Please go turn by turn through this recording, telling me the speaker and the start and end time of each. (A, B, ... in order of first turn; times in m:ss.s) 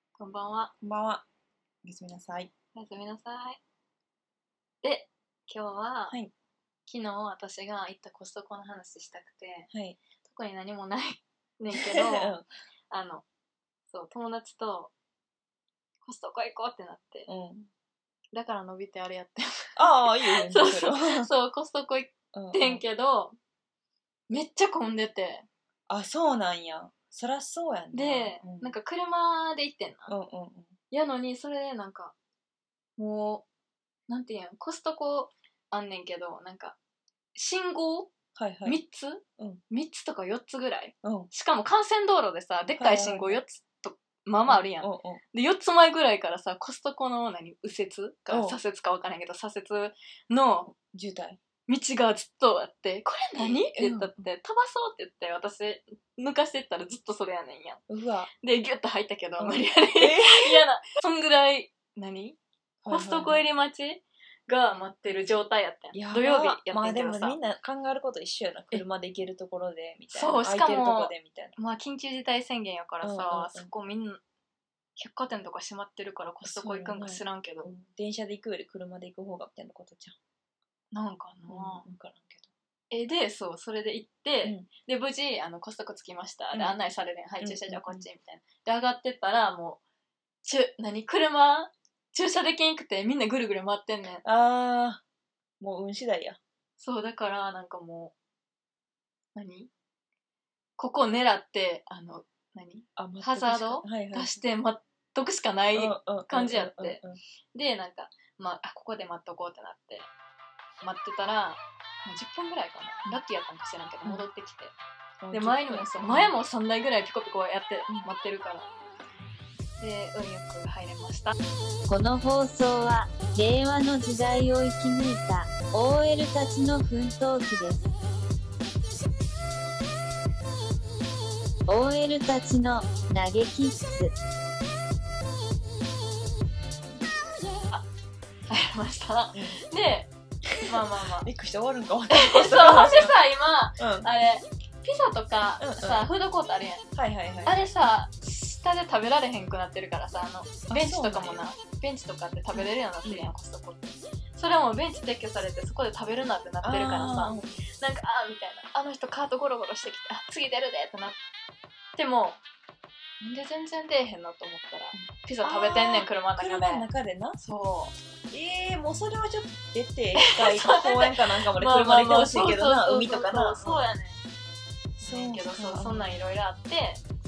0:00.2-0:00.7 A
0:00.8-0:01.2 B
0:01.8-0:02.5 B
0:02.7-0:03.6 A
0:04.8-0:06.2 A
0:06.9-0:09.7 A
0:09.7-0:10.0 B
0:10.2-0:12.4 A
0:11.7-0:12.5 B
0:12.9-0:13.2 A
0:13.9-0:14.9 A
0:16.0-0:17.3 A
0:17.3-0:17.7 B
0:18.3-0:23.4 A
0:19.8-0:21.3 B
0:22.3-0:22.8 B
0:24.3-0:25.5 A
0:25.9-0:28.8 B
0:27.9-0:30.1 A
0:30.1-0:30.8 B
0:30.9-0:32.1 A
0:33.0-0:33.5 A
0:34.1-0:36.8 A
0:37.4-0:38.1 A
0:38.4-0:38.8 B
0:38.6-0:50.7 A
0:41.0-0:41.3 B
0:42.8-0:43.4 B
0:44.5-0:45.2 B
0:48.3-0:48.6 B
0:50.8-0:51.4 B
0:51.7-0:57.8 A
0:53.4-0:54.2 B
0:57.9-0:58.3 B
0:58.4-1:07.4 A
0:59.4-1:00.7 B
1:02.8-1:03.5 B
1:05.9-1:11.6 B
1:10.1-1:14.2 A
1:13.0-1:13.7 B
1:15.0-1:17.7 A
1:16.4-1:20.2 B
1:20.9-1:21.8 A
1:21.5-1:22.5 B
1:22.9-1:29.8 A
1:24.4-1:24.7 B
1:26.5-1:26.8 B
1:27.4-1:28.1 B
1:30.4-1:34.2 A
1:34.2-1:35.0 B
1:35.6-1:36.4 B
1:36.8-1:38.2 A
1:39.4-1:39.7 A
1:40.8-1:47.0 A
1:43.0-1:44.4 B
1:45.7-1:47.2 B
1:47.5-1:50.1 A
1:50.8-1:54.8 A
1:55.2-1:56.3 B
1:55.3-1:58.7 A
1:59.8-2:01.4 A
2:01.9-2:07.9 C
2:11.7-2:14.1 C
2:18.5-2:20.1 A
2:19.3-2:19.6 B
2:20.5-2:23.2 B
2:20.7-2:21.3 A
2:22.1-2:26.8 A
2:23.8-2:24.1 B
2:25.6-2:26.1 B
2:27.0-2:27.7 B
2:27.4-2:41.2 A
2:30.7-2:31.4 B
2:32.5-2:33.3 B
2:36.6-2:37.5 B
2:42.0-2:42.4 A
2:43.2-2:46.9 A
2:44.9-2:47.4 B
2:47.4-2:48.0 A
2:48.3-2:53.8 B
2:50.2-2:54.2 A
2:55.0-2:56.2 B
2:55.0-2:57.0 A